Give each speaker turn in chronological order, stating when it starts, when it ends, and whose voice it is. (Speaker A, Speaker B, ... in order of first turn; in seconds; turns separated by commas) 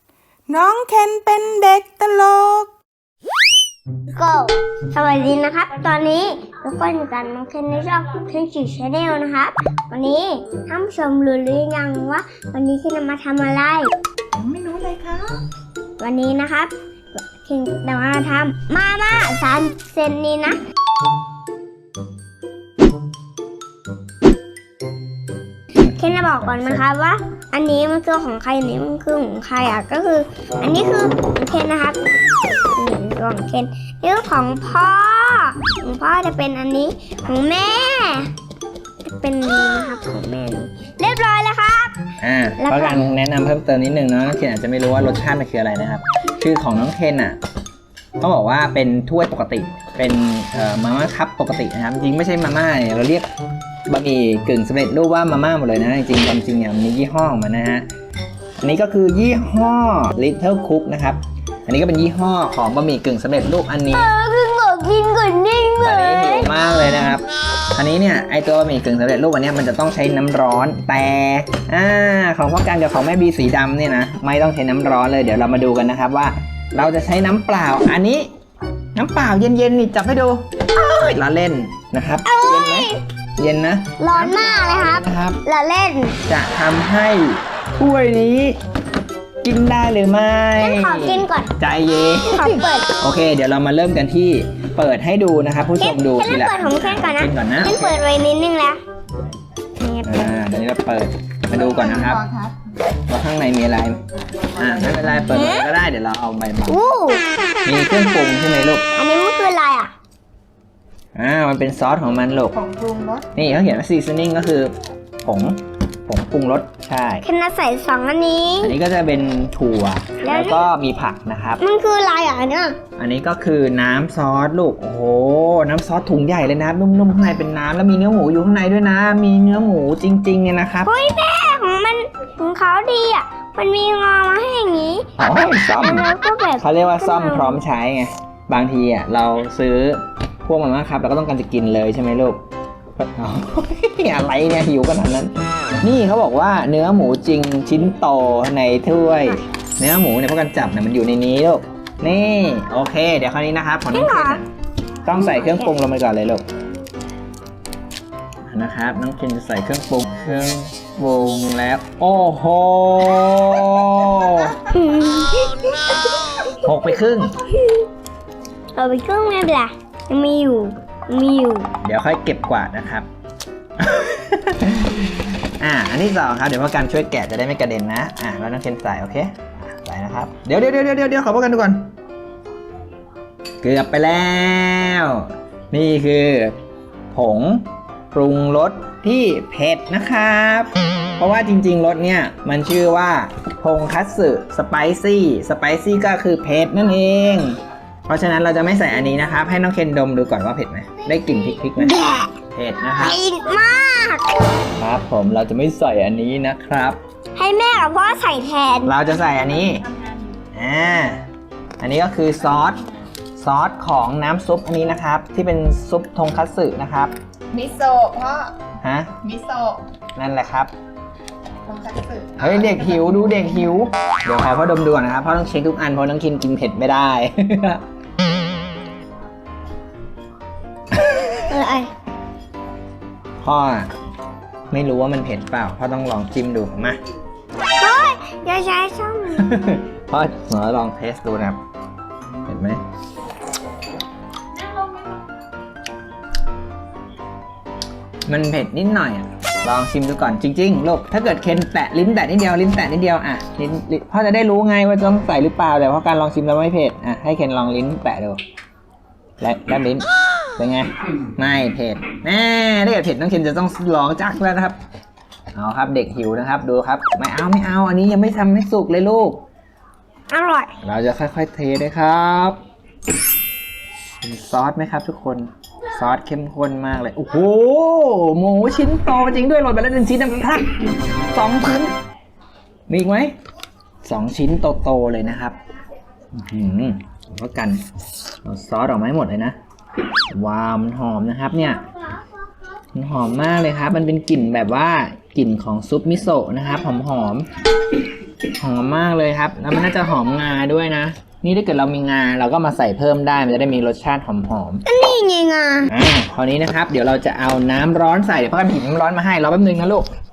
Speaker A: 0.5-2.3, Speaker B: 0.7-2.6, Speaker C: 4.1-13.9, Speaker A: 14.3-15.4, Speaker C: 16.0-20.6, Speaker B: 25.8-26.8, Speaker C: 25.9-38.3, Speaker C: 39.0-43.0, Speaker B: 42.2-47.4, Speaker B: 48.2-53.3, Speaker B: 53.9-57.9, Speaker B: 58.6-64.1, Speaker C: 63.9-66.9, Speaker B: 65.8-78.3, Speaker B: 79.0-85.4, Speaker C: 82.2-83.0, Speaker C: 84.0-86.2, Speaker B: 86.3-88.6, Speaker B: 89.4-98.0, Speaker C: 90.6-91.5, Speaker C: 92.2-93.0, Speaker C: 95.8-98.8, Speaker C: 99.8-100.4, Speaker B: 100.0-102.2, Speaker A: 101.6-102.6, Speaker B: 103.1-104.0, Speaker B: 104.5-106.8, Speaker C: 105.3-105.7, Speaker C: 106.7-107.2, Speaker B: 107.7-108.9, Speaker C: 109.0-109.9, Speaker B: 111.2-112.6, Speaker A: 112.6-113.3, Speaker B: 113.3-114.7, Speaker B: 115.2-117.2, Speaker C: 117.2-118.8, Speaker B: 118.6-121.6, Speaker C: 120.2-120.7, Speaker C: 121.6-122.8, Speaker B: 123.0-130.9, Speaker C: 130.8-137.6, Speaker B: 135.2-136.1, Speaker B: 136.6-142.4, Speaker B: 143.0-154.4, Speaker C: 153.9-154.4, Speaker B: 155.1-156.4, Speaker C: 155.1-155.8, Speaker B: 158.5-164.6, Speaker C: 164.7-166.5, Speaker B: 166.6-167.4, Speaker C: 168.8-171.7, Speaker B: 171.8-173.1, Speaker B: 173.8-181.9, Speaker B: 183.6-186.6, Speaker B: 187.1-202.0, Speaker C: 201.8-202.4, Speaker B: 202.6-203.2, Speaker C: 203.0-204.7, Speaker B: 204.8-207.0, Speaker C: 207.4-209.0, Speaker B: 208.8-209.9, Speaker B: 210.5-211.2, Speaker B: 211.8-212.8, Speaker B: 213.4-217.1, Speaker A: 217.5-218.6, Speaker B: 218.8-219.2, Speaker A: 219.2-219.8, Speaker B: 220.2-220.7, Speaker A: 221.7-223.0, Speaker B: 222.4-227.8, Speaker C: 231.2-231.9, Speaker B: 233.4-233.9, Speaker B: 234.7-237.0, Speaker C: 237.8-239.5, Speaker B: 239.3-241.6, Speaker B: 242.5-242.8, Speaker B: 248.3-258.4, Speaker B: 259.4-260.1, Speaker B: 260.6-264.8, Speaker B: 265.6-269.4, Speaker C: 270.3-270.8, Speaker B: 270.8-272.6, Speaker B: 274.2-281.9, Speaker B: 282.9-283.3, Speaker B: 284.0-285.6, Speaker B: 286.3-287.8, Speaker B: 288.4-289.6, Speaker B: 290.3-291.8, Speaker B: 292.9-297.5, Speaker B: 298.6-304.8, Speaker C: 304.9-305.9, Speaker B: 305.9-310.1